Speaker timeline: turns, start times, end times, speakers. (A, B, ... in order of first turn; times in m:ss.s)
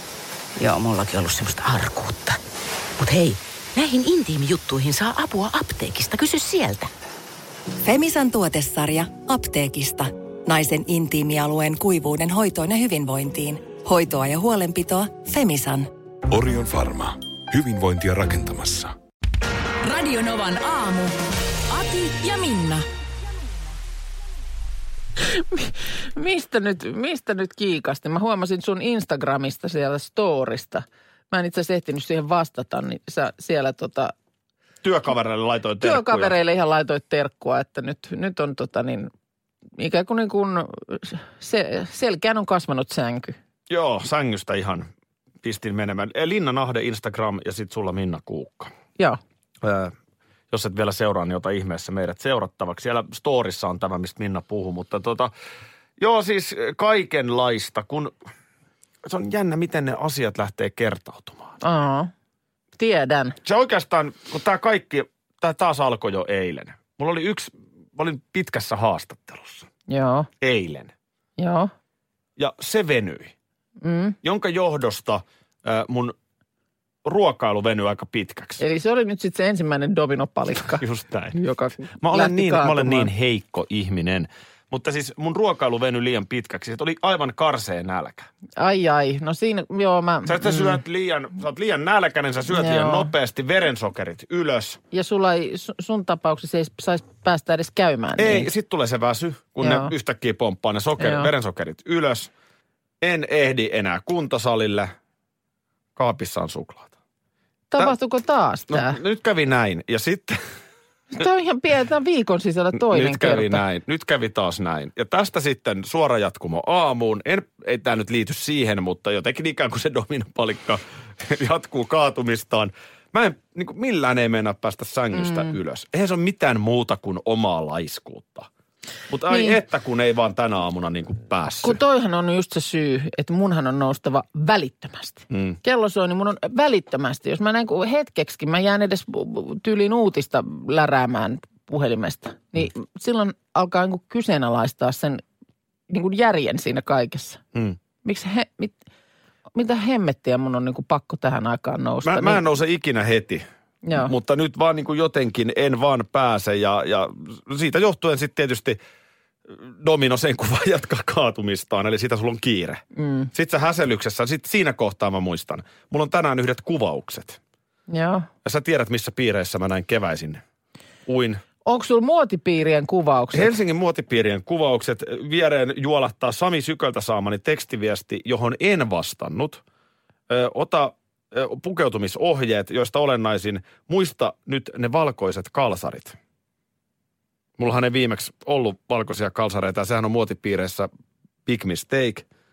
0:00.6-0:02.4 A
0:03.0-0:06.9 A
0:07.8-0:15.9 B
0:16.3-0:18.9 C
0:19.8-0:21.2 D
0:21.7-0:22.8 D
0:25.3-0:34.1 E
0:34.8-0:36.3 F
0:35.8-0:39.1 E
0:39.8-0:43.4 E
0:43.7-0:44.9 F
0:45.4-0:48.7 F
0:49.6-0:49.9 F
0:50.5-0:55.3 F
0:56.0-0:58.1 F
0:59.0-1:01.6 F
1:01.6-1:02.1 E
1:02.8-1:03.4 E
1:03.4-1:09.7 F
1:09.9-1:10.3 E
1:10.4-1:10.9 F
1:11.4-1:11.7 E
1:12.4-1:13.3 F
1:13.8-1:14.2 E
1:14.2-1:16.1 F
1:17.0-1:18.6 F
1:18.6-1:20.8 E
1:20.8-1:21.4 F
1:21.3-1:23.1 E
1:21.9-1:28.3 F
1:28.6-1:30.8 E
1:30.3-1:34.8 F
1:32.5-1:33.1 E
1:34.9-1:38.5 E
1:38.2-1:42.3 F
1:39.6-1:39.9 E
1:41.0-1:41.3 E
1:43.0-1:44.9 F
1:46.0-1:46.9 F
1:47.7-1:49.0 E
1:48.7-1:50.4 F
1:51.1-1:53.6 E
1:52.7-2:08.5 F
2:09.1-2:11.8 F
2:09.3-2:09.6 E
2:11.6-2:25.2 E
2:15.3-2:15.6 F
2:25.9-2:27.4 E
2:28.0-2:28.8 E
2:29.5-2:32.4 E
2:32.0-2:33.4 F
2:33.8-2:34.1 E
2:34.0-2:38.8 F
2:39.5-2:42.8 F
2:43.0-2:43.3 E
2:43.3-2:47.4 F
2:47.9-2:48.3 E
2:48.4-2:50.4 F
2:51.1-2:51.4 F
2:51.6-2:53.5 E
2:53.3-2:59.6 F
3:00.3-3:06.2 F
3:07.6-3:10.9 F
3:11.4-3:12.2 F